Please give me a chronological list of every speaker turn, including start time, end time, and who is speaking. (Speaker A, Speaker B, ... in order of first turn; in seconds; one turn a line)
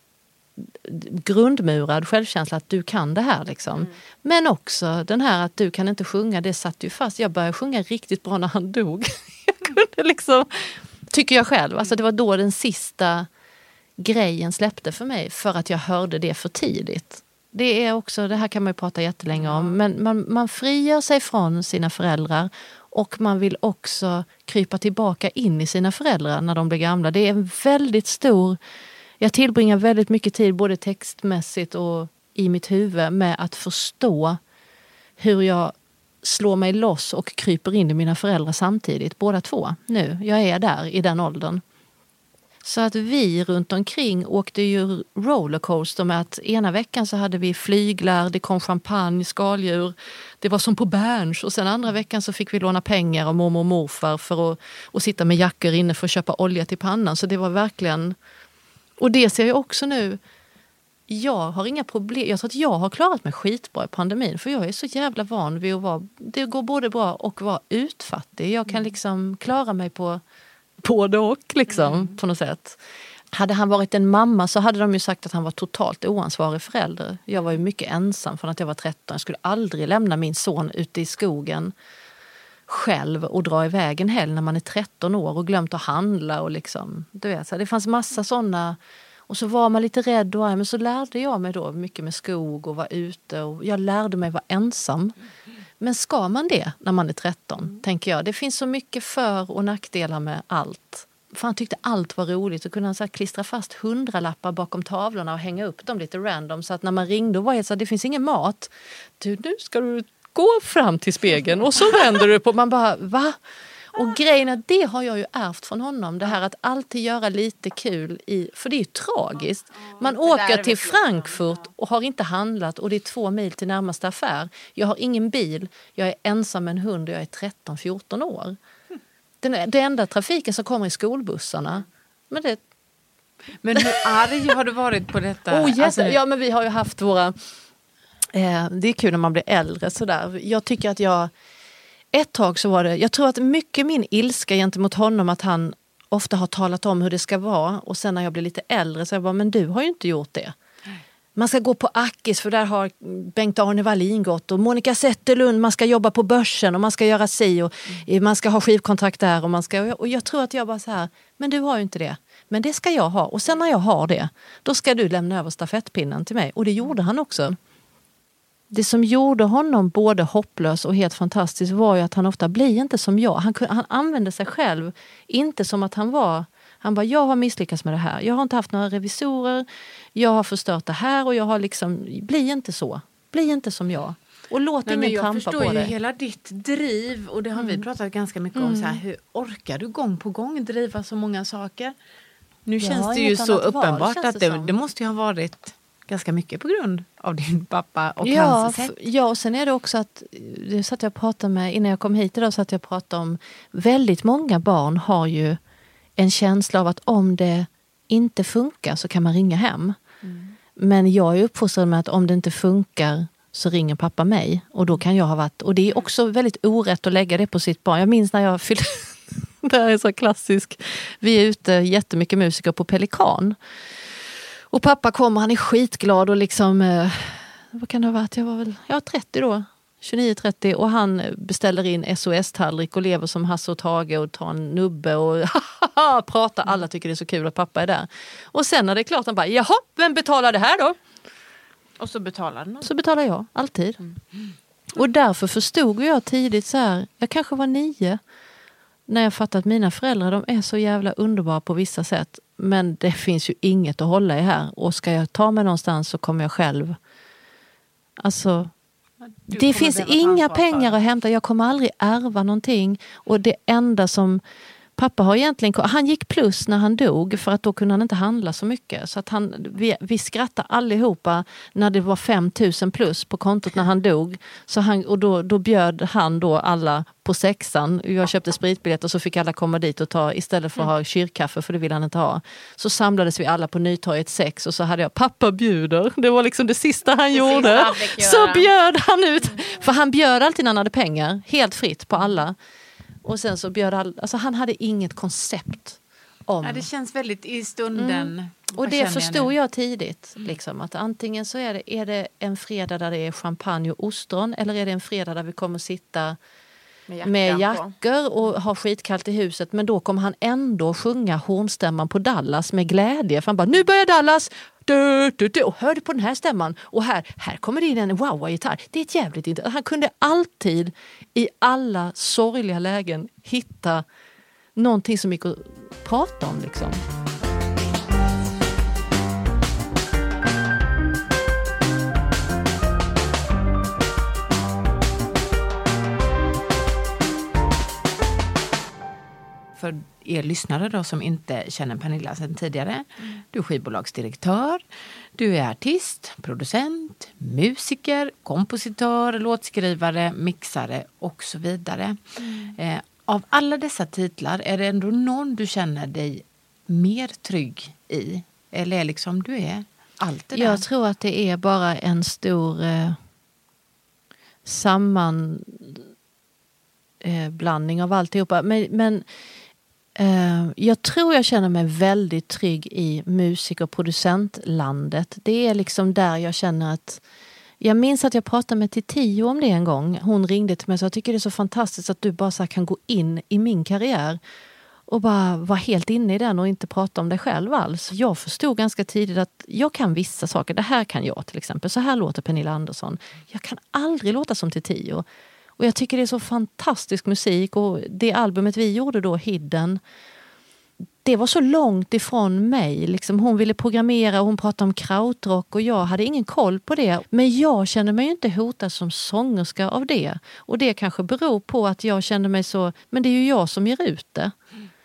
Speaker A: 0.6-13.3
Speaker A: 14.0-28.6
Speaker B: 19.4-19.7
Speaker A: 29.2-34.4
Speaker A: 35.2-41.6
Speaker A: 42.6-58.1
Speaker A: 59.0-60.2
Speaker A: 61.1-70.2
Speaker A: 70.8-72.8
Speaker A: 73.3-81.7
Speaker A: 82.7-95.1
Speaker A: 95.8-113.4
Speaker A: 113.9-128.6
Speaker C: 120.0-121.3
Speaker A: 129.4-132.6
Speaker B: 133.6-136.2
Speaker A: 135.5-137.3
Speaker A: 138.3-141.3
Speaker A: 142.1-150.5
Speaker A: 151.3-167.6
Speaker A: 168.7-185.9
Speaker B: 184.8-191.9
Speaker A: 187.6-187.8
Speaker A: 188.5-189.0
Speaker B: 192.7-198.9
Speaker A: 192.8-194.7
Speaker A: 198.2-205.6
Speaker A: 206.2-210.0
Speaker B: 210.2-210.5
Speaker A: 210.8-223.6
Speaker A: 224.7-241.0
Speaker C: 242.1-242.8
Speaker A: 242.8-244.0
Speaker A: 244.9-248.2
Speaker A: 249.1-257.0
Speaker A: 258.2-258.7
Speaker B: 259.4-261.0
Speaker A: 259.5-264.4
Speaker A: 264.9-292.5
Speaker C: 287.3-288.6
Speaker B: 287.3-288.2
Speaker A: 293.2-296.9
Speaker B: 296.6-299.5
Speaker A: 297.9-306.4
Speaker C: 307.1-307.6
Speaker A: 307.2-324.0
Speaker A: 324.8-327.0
Speaker B: 339.8-344.8
Speaker B: 345.4-360.9
Speaker A: 360.5-363.2
Speaker A: 364.6-366.0
Speaker A: 367.2-369.2
Speaker A: 370.1-377.2
Speaker A: 377.8-384.4
Speaker A: 385.1-395.2
Speaker A: 395.8-400.0
Speaker A: 401.2-414.5